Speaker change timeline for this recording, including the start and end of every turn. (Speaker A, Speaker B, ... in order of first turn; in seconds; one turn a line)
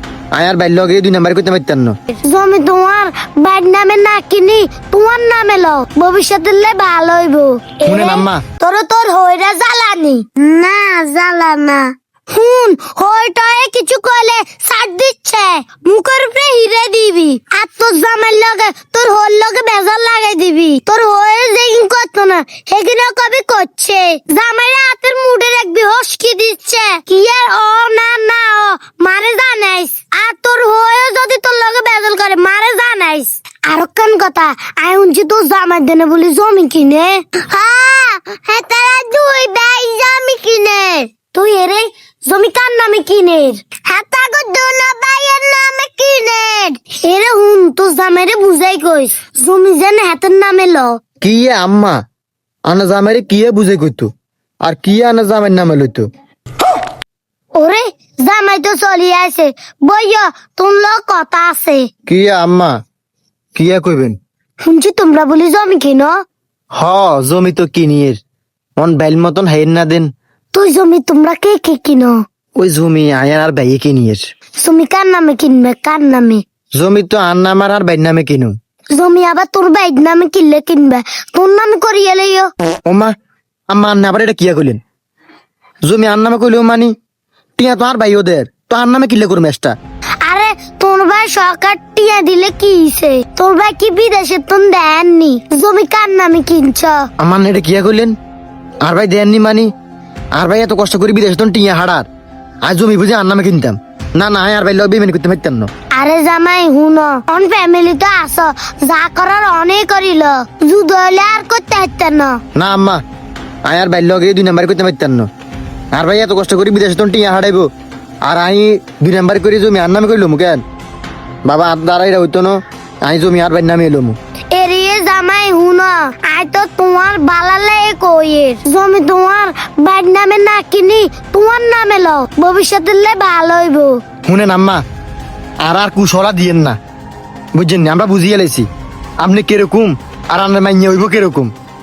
Speaker A: 0.3-1.9
Speaker B: 2.2-51.0
Speaker A: 7.8-8.4
Speaker A: 51.2-52.0
Speaker A: 52.7-54.1
Speaker A: 54.6-56.1
Speaker B: 57.5-61.9
Speaker A: 62.1-62.8
Speaker A: 63.5-64.2
Speaker B: 64.6-66.2
Speaker A: 66.8-68.2
Speaker A: 68.8-70.1
Speaker B: 70.5-72.2
Speaker A: 72.6-74.2
Speaker B: 74.6-76.4
Speaker A: 76.8-78.5
Speaker B: 79.0-82.5
Speaker A: 82.9-83.1
Speaker A: 83.7-84.8
Speaker A: 85.9-86.9
Speaker A: 87.6-89.8
Speaker B: 90.2-97.0
Speaker A: 97.2-98.1
Speaker A: 98.8-99.7
Speaker A: 100.3-102.1
Speaker A: 102.7-105.7
Speaker B: 106.0-112.4
Speaker A: 112.5-113.0
Speaker A: 113.7-115.3
Speaker A: 115.9-117.7
Speaker A: 118.2-120.6
Speaker A: 121.5-124.2
Speaker B: 124.5-134.0
Speaker A: 134.3-134.8
Speaker A: 135.6-136.8
Speaker A: 137.6-138.7
Speaker A: 139.2-141.5